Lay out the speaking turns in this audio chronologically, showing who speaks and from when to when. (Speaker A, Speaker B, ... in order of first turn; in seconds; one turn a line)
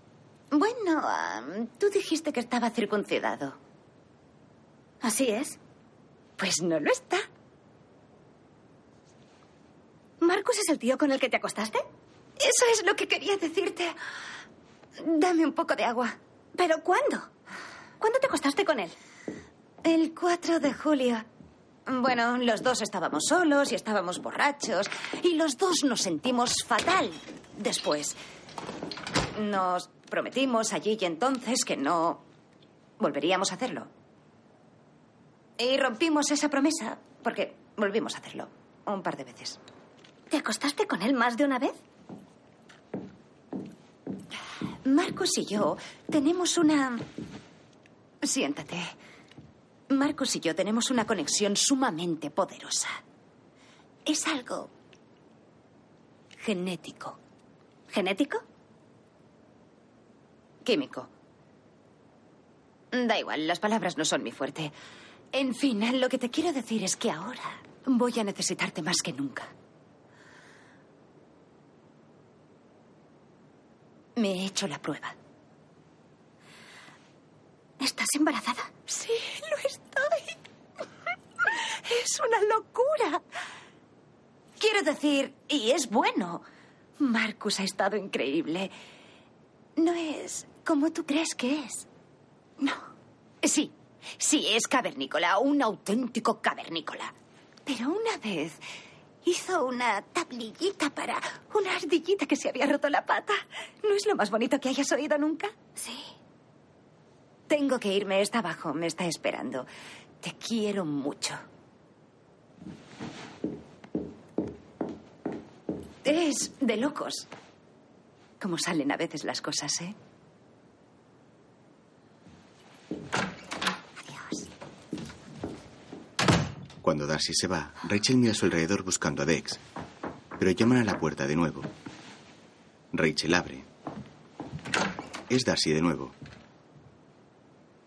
Speaker A: 0.5-3.6
Speaker B: 5.0-5.6
Speaker A: 6.4-7.2
Speaker B: 10.2-11.8
Speaker A: 12.4-13.9
Speaker A: 15.0-16.1
Speaker B: 16.5-17.2
Speaker B: 18.0-18.9
Speaker A: 19.8-21.2
Speaker A: 21.9-28.2
Speaker A: 29.4-32.2
Speaker A: 33.0-33.9
Speaker A: 35.6-39.6
Speaker B: 40.3-41.7
Speaker A: 44.8-47.1
Speaker A: 48.2-48.9
Speaker A: 49.9-53.0
Speaker A: 54.0-54.7
Speaker A: 56.4-57.2
Speaker B: 57.9-58.4
Speaker A: 60.6-61.1
Speaker A: 62.9-64.7
Speaker A: 65.3-69.5
Speaker A: 74.2-75.1
Speaker B: 77.8-78.7
Speaker A: 78.9-80.4
Speaker A: 81.5-83.2
Speaker A: 84.6-86.4
Speaker A: 87.0-88.7
Speaker A: 89.8-91.9
Speaker A: 93.4-97.1
Speaker A: 97.7-98.6
Speaker A: 99.2-105.5
Speaker B: 105.8-106.1
Speaker A: 107.5-109.7
Speaker A: 110.2-111.4
Speaker A: 116.0-117.3
Speaker A: 118.4-120.0
Speaker A: 124.0-124.5
Speaker C: 126.8-129.6
Speaker C: 130.4-131.7
Speaker C: 132.9-133.7
Speaker C: 135.3-136.2